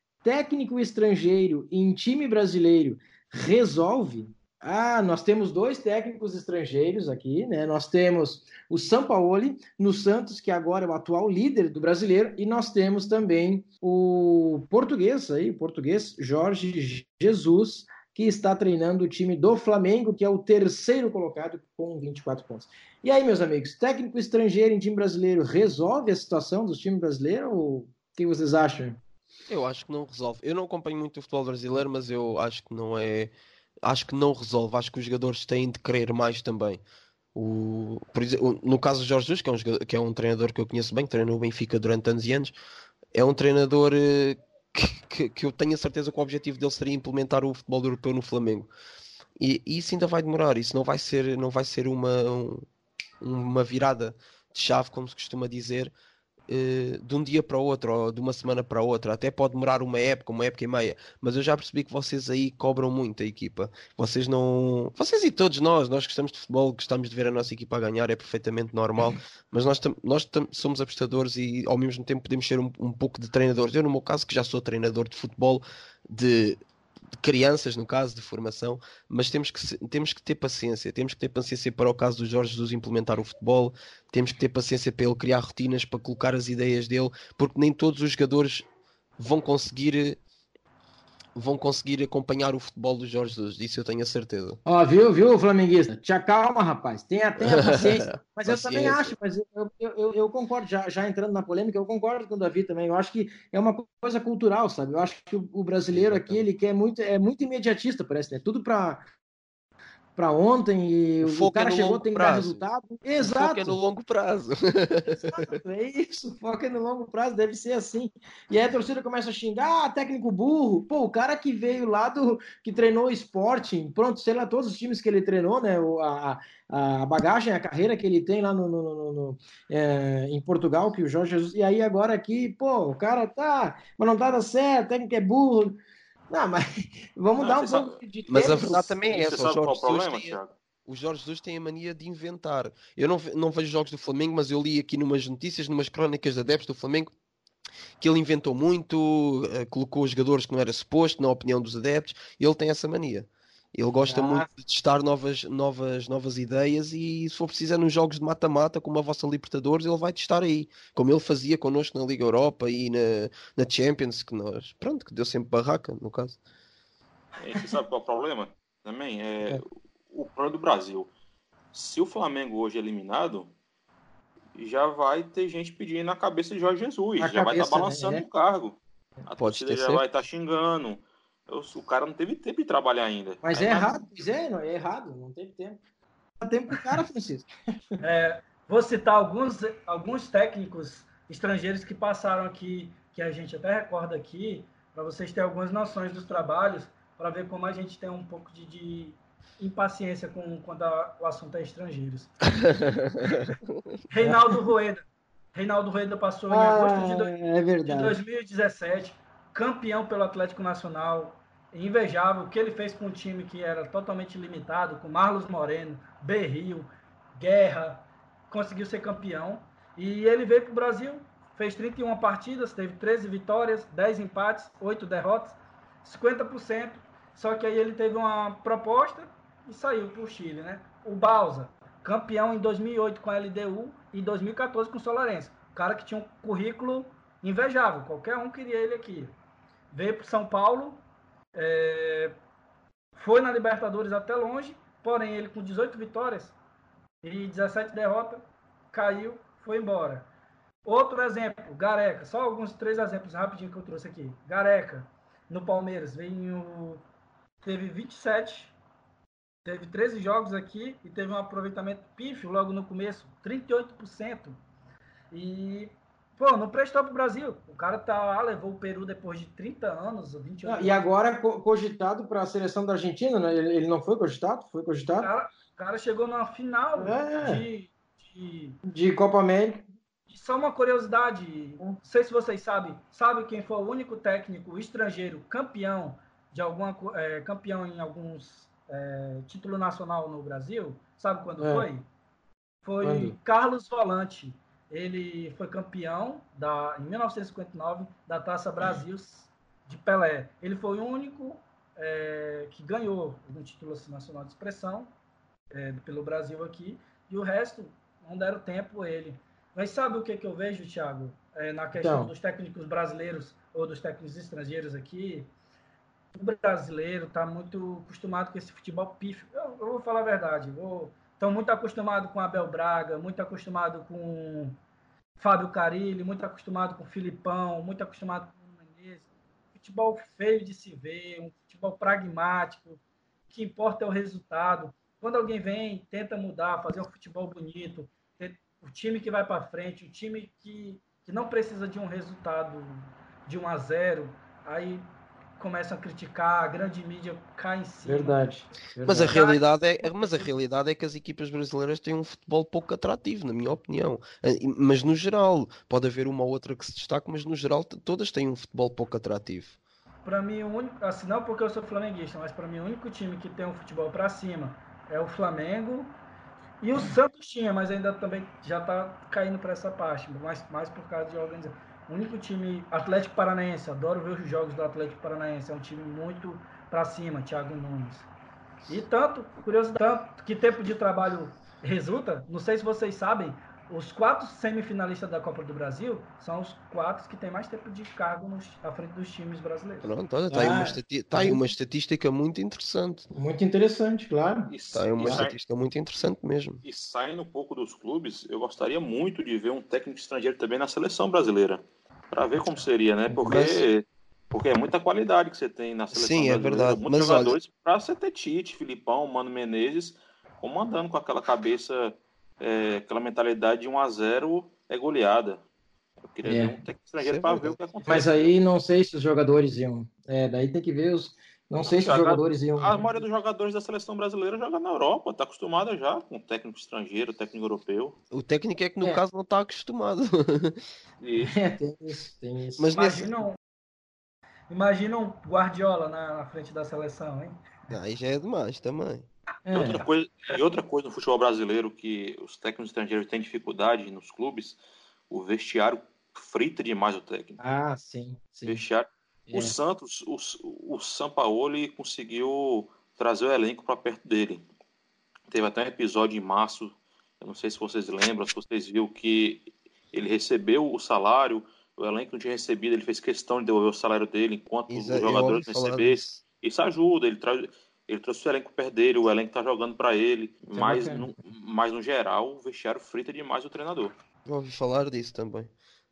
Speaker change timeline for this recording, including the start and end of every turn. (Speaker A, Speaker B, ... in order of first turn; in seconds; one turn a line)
Speaker A: 0.2-29.0
Speaker B: 29.5-33.3
Speaker B: 33.9-36.8
Speaker B: 37.4-42.5
Speaker B: 43.1-48.7
Speaker B: 49.4-52.7
Speaker B: 53.2-55.9
Speaker B: 56.5-76.6
Speaker B: 77.2-88.7
Speaker B: 89.2-90.2
Speaker B: 91.4-94.6
Speaker A: 94.7-109.1
Speaker B: 97.4-99.1
Speaker B: 105.9-106.4
Speaker A: 110.2-113.8
Speaker B: 111.2-112.6
Speaker B: 113.2-115.6
Speaker A: 115.1-135.8
Speaker A: 136.3-139.0
Speaker C: 137.4-138.0
Speaker B: 138.3-147.1
Speaker C: 139.1-140.6
Speaker B: 148.0-166.4
Speaker A: 154.1-154.5
Speaker C: 167.4-171.1
Speaker C: 171.7-173.5
Speaker C: 174.6-184.0
Speaker A: 177.2-178.3
Speaker B: 179.4-180.0
Speaker A: 183.4-185.8
Speaker A: 186.4-187.5
Speaker D: 188.0-203.4
Speaker B: 202.8-203.6
Speaker D: 204.1-239.3
Speaker A: 206.5-208.2
Speaker D: 239.9-241.0
Speaker D: 241.5-242.3
Speaker D: 243.2-246.6
Speaker D: 247.2-250.3
Speaker D: 250.8-257.0
Speaker D: 257.6-258.7
Speaker D: 259.6-264.6
Speaker D: 265.3-271.1
Speaker A: 270.6-275.3
Speaker D: 275.2-278.8
Speaker A: 276.9-277.6
Speaker A: 278.9-279.9
Speaker D: 280.3-292.1
Speaker A: 291.6-291.9
Speaker D: 292.8-305.1
Speaker A: 293.0-293.4
Speaker D: 305.7-315.5
Speaker A: 312.0-312.3
Speaker D: 316.3-324.8
Speaker D: 325.4-345.1
Speaker D: 345.6-348.4
Speaker A: 348.0-349.4
Speaker B: 349.1-359.8
Speaker D: 349.3-350.5
Speaker D: 360.2-366.1
Speaker D: 366.8-378.3
Speaker D: 378.9-390.1
Speaker B: 390.0-393.3
Speaker A: 390.5-391.6
Speaker A: 393.3-395.5
Speaker C: 394.7-395.6
Speaker B: 394.9-396.8
Speaker C: 396.8-415.6
Speaker B: 403.4-403.9
Speaker B: 406.1-407.6
Speaker C: 416.2-418.5
Speaker A: 416.4-416.8
Speaker B: 417.2-417.8
Speaker A: 418.1-423.2
Speaker C: 421.8-428.2
Speaker B: 428.3-430.8
Speaker C: 431.2-431.6
Speaker A: 431.4-432.9
Speaker B: 432.8-433.4
Speaker D: 432.9-433.6
Speaker D: 434.7-437.6
Speaker B: 437.9-439.3
Speaker A: 439.7-440.0
Speaker C: 439.7-444.8
Speaker C: 445.3-447.6
Speaker A: 447.6-448.8
Speaker C: 448.6-454.6
Speaker A: 449.5-449.8
Speaker C: 455.5-474.1
Speaker B: 464.9-466.4
Speaker A: 470.8-471.3
Speaker B: 474.5-475.7